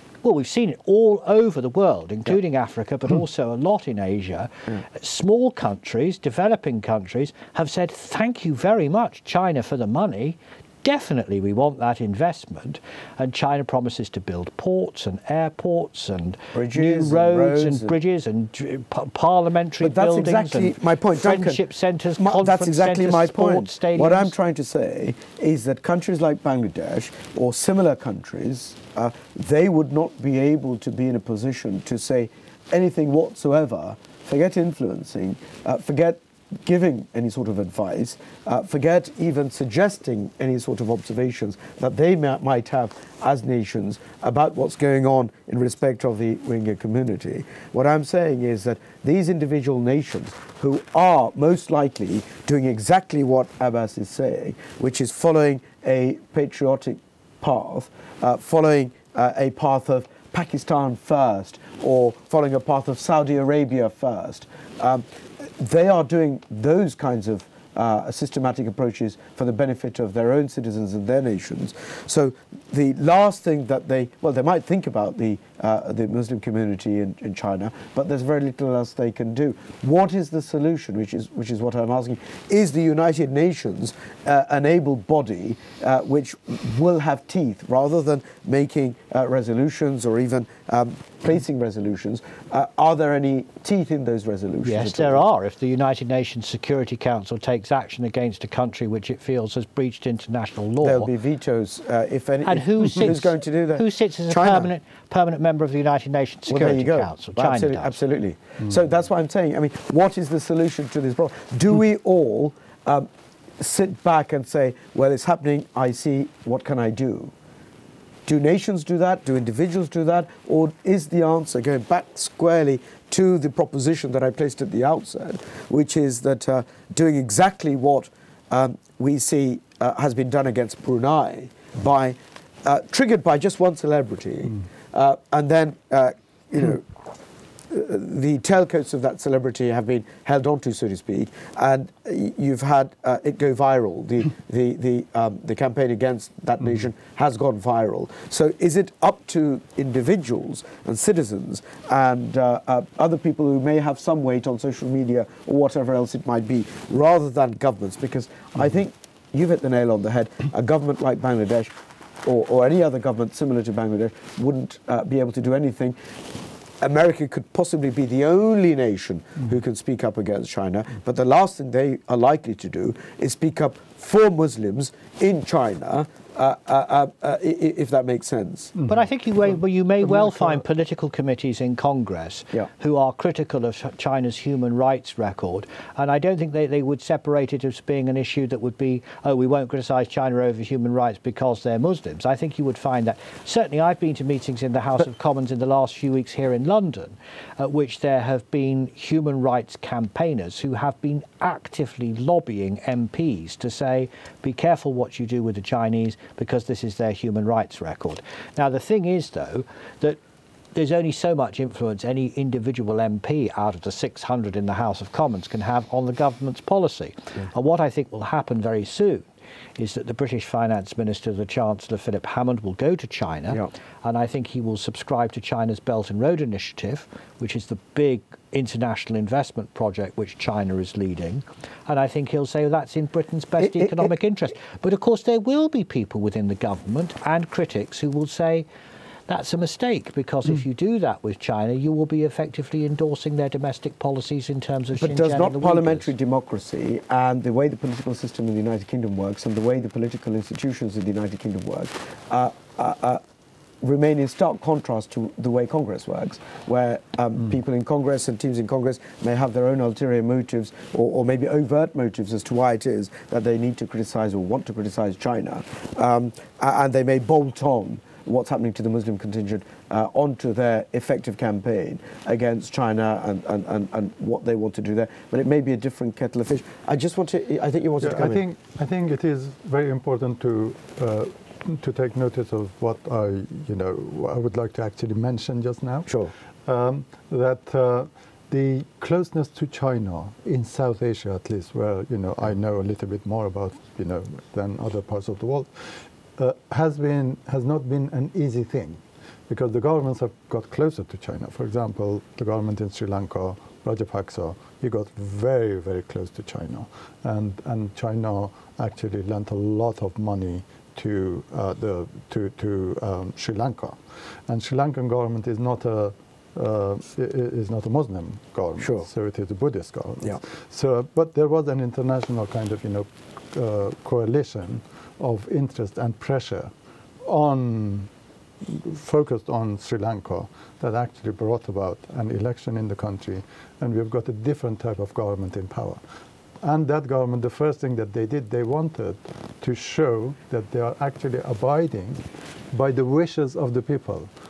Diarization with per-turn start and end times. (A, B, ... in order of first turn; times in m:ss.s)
0:00.2-0:24.4 A
0:16.5-0:18.0 B
0:19.8-0:21.6 B
0:22.2-1:35.2 B
1:34.6-1:41.1 A
1:40.8-1:44.7 B
1:42.4-1:47.9 A
1:46.5-1:53.1 B
1:53.6-1:57.3 B
1:58.3-2:16.9 B
2:17.7-2:41.7 B
2:42.2-2:46.0 B
2:46.8-2:58.8 B
2:58.9-3:30.2 A
3:30.7-3:58.7 A
3:53.6-3:54.1 B
3:59.3-4:06.1 A
4:05.0-4:13.2 B
4:13.8-4:38.4 B
4:38.0-4:46.1 C
4:46.7-4:55.7 C
4:56.4-5:14.0 C
5:14.5-5:26.7 C
5:18.8-5:19.1 B
5:27.2-5:28.1 C
5:28.6-5:36.0 C
5:36.6-5:44.3 C